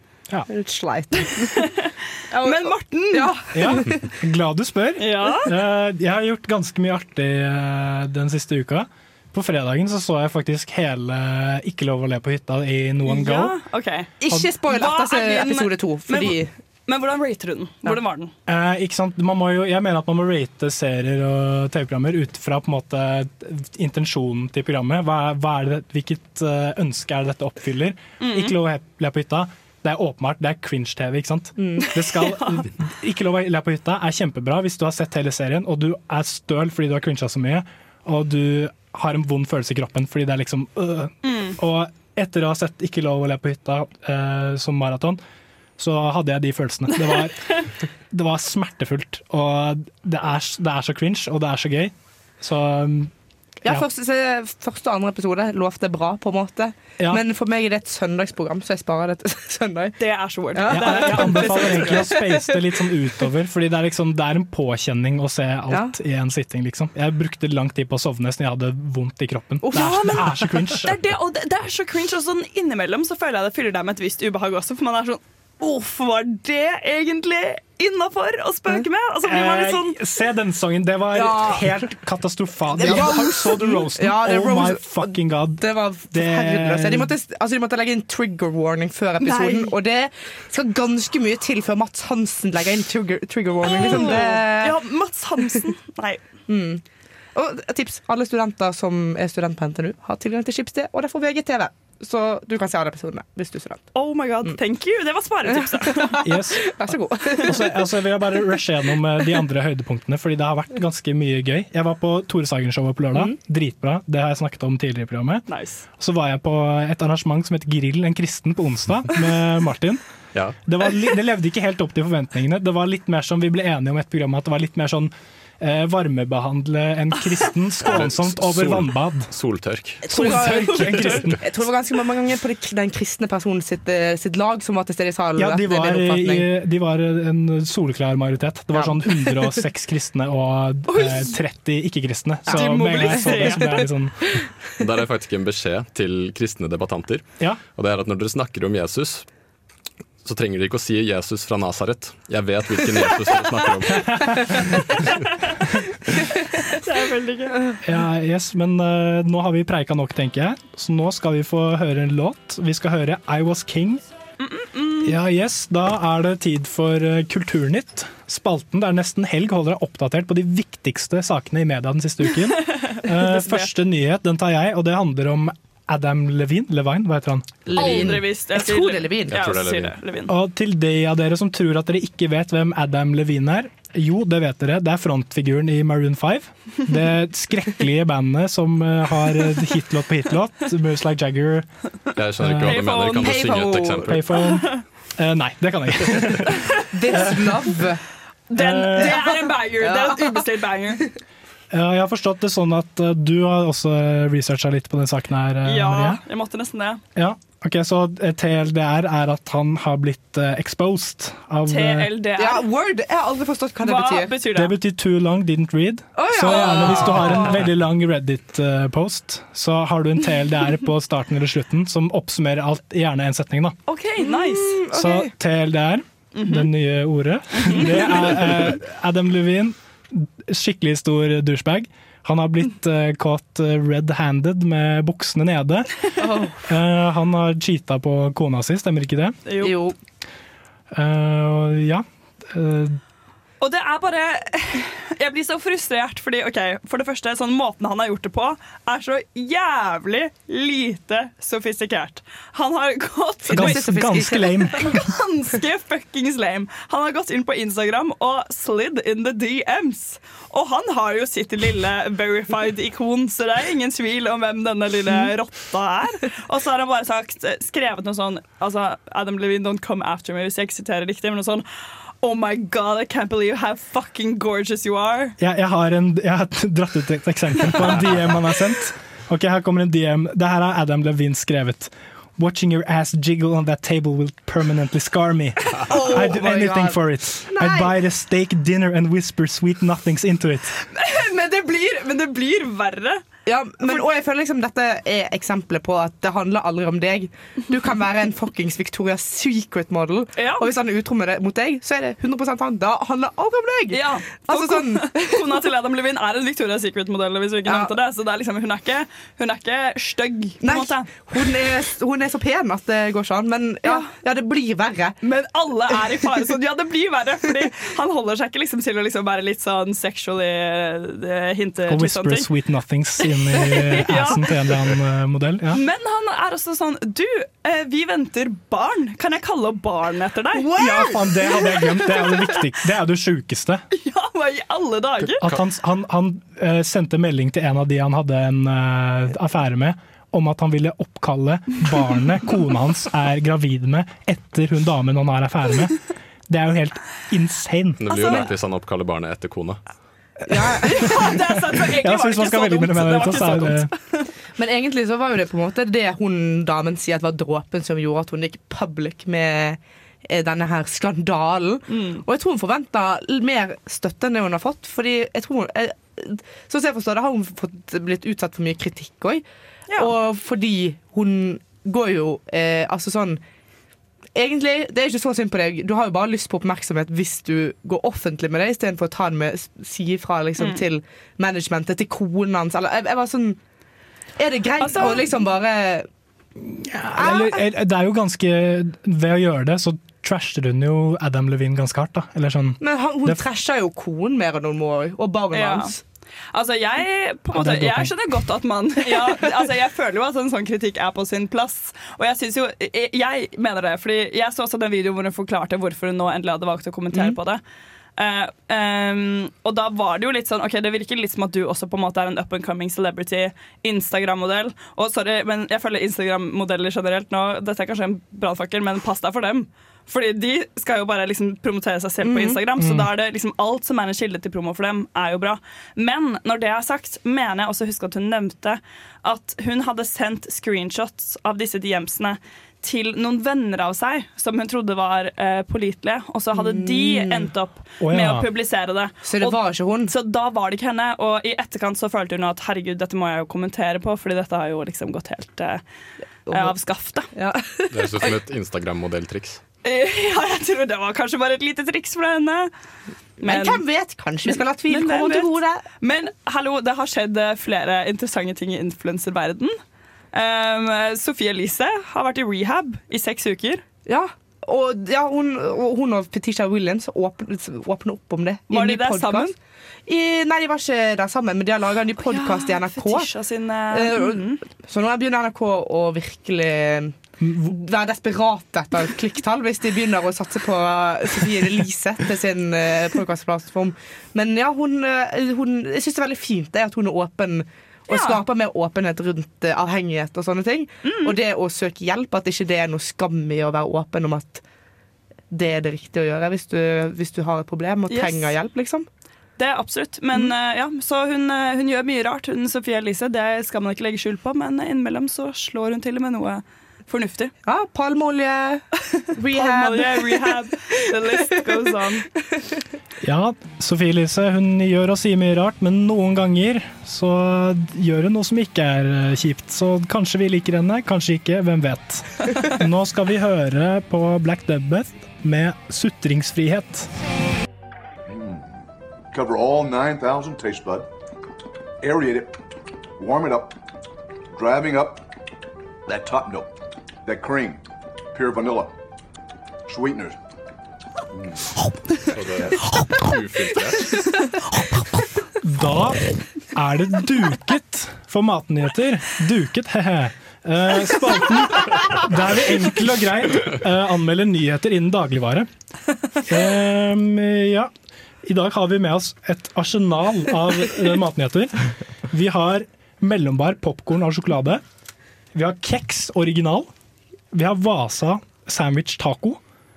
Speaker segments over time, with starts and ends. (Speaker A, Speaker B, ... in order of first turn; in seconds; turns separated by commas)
Speaker A: 0.5-1.6, Speaker B: 1.6-3.4, Speaker A: 2.3-4.1, Speaker C: 3.5-13.5, Speaker B: 5.0-5.5, Speaker B: 13.1-14.1, Speaker A: 14.2-16.5, Speaker B: 14.6-18.3, Speaker C: 18.5-45.2, Speaker B: 28.2-28.5, Speaker A: 31.6-31.9, Speaker B: 32.2-32.7, Speaker B: 41.2-41.5, Speaker C: 45.8-53.1, Speaker A: 53.6-60.0, Speaker B: 60.0-62.2, Speaker A: 60.5-62.5, Speaker C: 60.7-70.9, Speaker A: 69.6-70.5, Speaker B: 69.8-70.0, Speaker B: 70.8-80.0, Speaker C: 79.2-87.1, Speaker A: 81.1-81.8, Speaker A: 82.8-94.8, Speaker B: 82.9-83.2, Speaker B: 89.2-89.7, Speaker B: 93.6-96.2, Speaker A: 96.5-96.8, Speaker A: 97.3-103.9, Speaker B: 103.9-106.2, Speaker A: 105.7-107.6, Speaker C: 106.2-106.7, Speaker C: 107.5-115.5, Speaker B: 115.5-115.8, Speaker C: 116.0-120.0, Speaker C: 120.6-129.3, Speaker D: 127.8-130.2, Speaker A: 130.0-136.5, Speaker C: 130.1-131.4, Speaker D: 130.9-131.2, Speaker C: 135.4-144.3, Speaker A: 138.7-139.5, Speaker A: 140.9-141.3, Speaker A: 142.5-143.7, Speaker B: 142.5-143.9, Speaker D: 144.8-149.3, Speaker D: 150.2-154.7, Speaker B: 156.7-157.7, Speaker C: 157.8-164.0, Speaker B: 164.4-165.2, Speaker C: 165.0-177.6, Speaker B: 172.5-173.7, Speaker A: 177.7-179.4, Speaker B: 177.7-180.3, Speaker D: 179.3-180.0, Speaker C: 180.3-191.7, Speaker D: 192.2-194.3, Speaker C: 192.4-192.8, Speaker B: 192.6-193.8, Speaker A: 193.2-194.1, Speaker C: 194.1-196.7, Speaker B: 194.3-194.8, Speaker A: 196.9-198.0, Speaker B: 198.5-201.1, Speaker C: 198.6-199.2, Speaker A: 198.9-200.4, Speaker C: 201.7-206.2, Speaker B: 205.6-207.0, Speaker C: 207.1-212.1, Speaker B: 211.7-212.7, Speaker A: 212.4-214.3, Speaker B: 213.8-214.7, Speaker C: 214.5-223.8, Speaker A: 216.2-217.6, Speaker B: 216.5-217.6, Speaker B: 223.9-224.8, Speaker A: 224.2-225.3, Speaker C: 224.9-236.0, Speaker B: 226.3-226.7, Speaker B: 227.6-228.7, Speaker A: 236.2-236.6, Speaker C: 236.6-239.4, Speaker B: 239.4-239.7, Speaker A: 239.6-239.9, Speaker C: 240.9-243.0, Speaker B: 243.6-253.8, Speaker A: 253.4-254.9, Speaker C: 253.5-255.0, Speaker B: 254.8-275.4, Speaker C: 275.4-290.7, Speaker A: 285.9-287.9, Speaker B: 290.9-293.2, Speaker A: 293.4-305.6, Speaker B: 300.4-300.6, Speaker B: 303.9-311.5, Speaker A: 307.6-307.9, Speaker A: 310.6-315.2, Speaker B: 313.8-314.1, Speaker B: 315.2-322.5, Speaker A: 316.1-316.4, Speaker C: 321.9-325.8, Speaker B: 323.2-324.7, Speaker B: 325.7-332.6, Speaker A: 330.6-331.2, Speaker C: 330.8-333.8, Speaker B: 333.9-335.4, Speaker C: 335.4-348.0, Speaker D: 348.0-349.8, Speaker A: 348.1-348.5, Speaker B: 348.2-348.4, Speaker A: 350.5-351.2, Speaker C: 350.7-351.1, Speaker B: 350.8-354.3, Speaker C: 352.0-353.9, Speaker A: 354.6-369.4, Speaker B: 361.9-362.2, Speaker A: 369.9-373.4, Speaker A: 374.3-383.6, Speaker A: 384.4-386.1, Speaker B: 384.8-385.3, Speaker C: 386.6-393.4, Speaker A: 387.1-387.6, Speaker A: 392.8-396.0, Speaker B: 395.5-395.9, Speaker B: 396.5-407.6, Speaker C: 397.6-398.1, Speaker B: 408.2-445.8, Speaker A: 422.2-422.6, Speaker C: 422.8-423.1, Speaker A: 436.5-437.5, Speaker C: 438.0-438.4, Speaker A: 439.2-440.1, Speaker A: 446.5-446.8, Speaker B: 446.5-447.3, Speaker A: 447.3-448.3, Speaker D: 447.9-449.6, Speaker B: 449.8-452.7, Speaker A: 453.4-455.8, Speaker B: 453.4-453.8, Speaker B: 454.4-459.8, Speaker B: 460.3-463.8, Speaker A: 464.1-469.5, Speaker B: 468.7-469.5, Speaker A: 470.1-473.3, Speaker B: 472.2-474.6, Speaker A: 473.9-494.6, Speaker C: 477.4-477.7, Speaker B: 488.1-488.4, Speaker B: 491.0-491.4, Speaker A: 495.5-499.1, Speaker B: 498.1-498.5, Speaker B: 499.6-507.5, Speaker A: 507.6-511.6, Speaker B: 509.1-512.2, Speaker C: 513.2-527.1, Speaker E: 528.3-528.7, Speaker E: 529.3-531.1, Speaker E: 532.0-532.6, Speaker E: 533.2-533.8, Speaker E: 534.5-535.2, Speaker E: 536.1-537.8, Speaker E: 538.3-538.9, Speaker E: 539.9-540.4, Speaker D: 542.3-544.2, Speaker C: 545.6-555.7, Speaker C: 556.4-557.9, Speaker C: 558.4-564.8, Speaker C: 565.5-566.9, Speaker C: 567.5-569.6